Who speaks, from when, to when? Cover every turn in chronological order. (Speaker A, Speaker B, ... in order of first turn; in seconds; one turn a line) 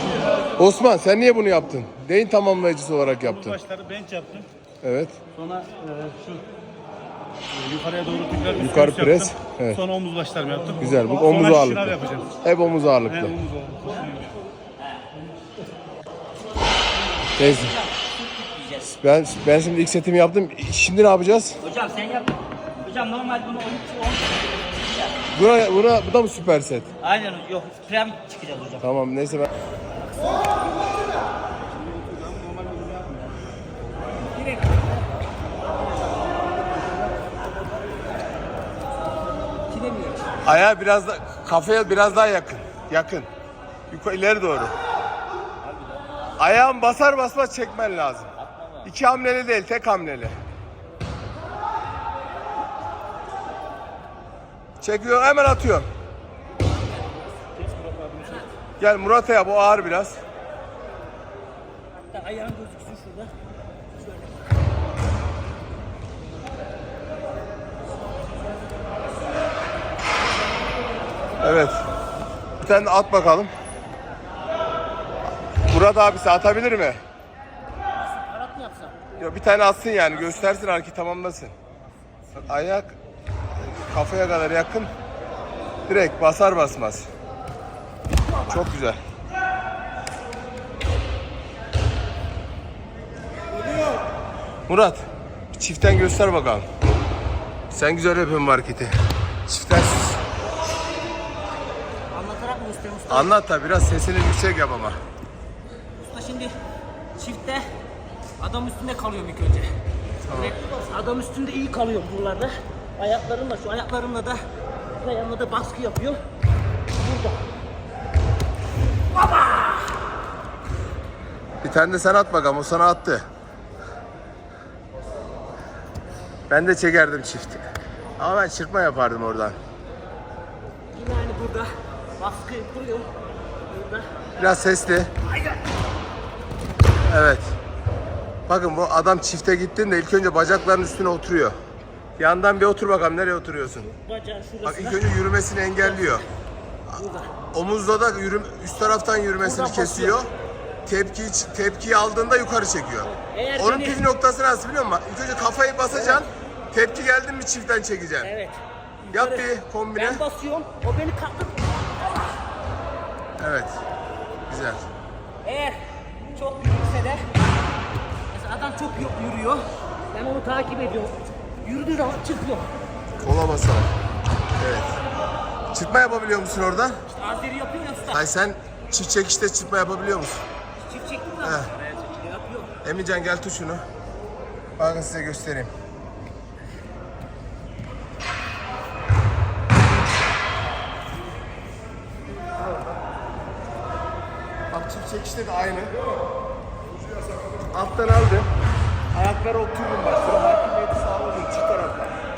Speaker A: 0.6-3.6
Speaker B: 3.5-4.5
Speaker A: 4.8-5.2
Speaker B: 5.3-6.4
Speaker B: 7.5-12.3
Speaker A: 8.5-9.8
Speaker A: 10.8-13.4
Speaker B: 13.3-14.3
Speaker A: 17.4-17.8
Speaker C: 18.4-18.9
Speaker A: 18.9-21.6
Speaker C: 21.6-24.4
Speaker A: 25.3-26.9
Speaker C: 27.0-28.8
Speaker A: 28.8-29.5
Speaker C: 39.7-40.4
Speaker A: 40.4-43.3
Speaker A: 43.9-44.7
Speaker A: 46.4-48.3
Speaker A: 48.8-50.4
Speaker A: 54.8-55.9
Speaker B: 57.8-58.2
Speaker A: 58.8-60.2
Speaker C: 62.0-63.3
Speaker C: 64.1-64.3
Speaker A: 71.4-71.8
Speaker A: 72.6-73.5
Speaker A: 75.7-77.0
Speaker C: 78.1-79.0
Speaker A: 79.2-81.5
Speaker A: 82.3-82.9
Speaker A: 83.5-84.9
Speaker A: 85.9-87.1
Speaker A: 88.5-89.0
Speaker A: 94.7-96.7
Speaker A: 97.7-99.0
Speaker A: 99.5-100.2
Speaker C: 102.1-103.3
Speaker A: 103.1-105.0
Speaker C: 106.0-106.6
Speaker C: 107.2-107.7
Speaker C: 108.4-109.8
Speaker A: 110.3-110.6
Speaker C: 110.3-116.2
Speaker C: 116.9-117.4
Speaker C: 119.1-120.0
Speaker A: 121.6-123.2
Speaker A: 126.5-127.7
Speaker A: 128.2-129.6
Speaker C: 130.9-133.1
Speaker C: 133.7-134.3
Speaker A: 134.4-135.1
Speaker A: 137.0-137.5
Speaker A: 138.5-141.6
Speaker A: 142.2-143.9
Speaker C: 143.8-145.1
Speaker A: 144.6-146.2
Speaker C: 146.9-147.3
Speaker A: 147.5-150.3
Speaker C: 149.4-150.2
Speaker A: 150.9-158.3
Speaker C: 153.1-154.0
Speaker C: 158.2-162.3
Speaker A: 159.1-160.2
Speaker A: 163.4-163.8
Speaker A: 164.5-164.8
Speaker C: 165.4-167.3
Speaker C: 168.3-172.7
Speaker A: 173.2-173.9
Speaker A: 174.6-175.0
Speaker A: 175.7-177.0
Speaker C: 177.1-178.3
Speaker A: 178.1-180.4
Speaker C: 180.8-182.8
Speaker A: 181.4-181.7
Speaker A: 182.8-183.8
Speaker A: 184.8-185.7
Speaker A: 194.7-196.0
Speaker A: 197.6-198.5
Speaker A: 199.1-202.2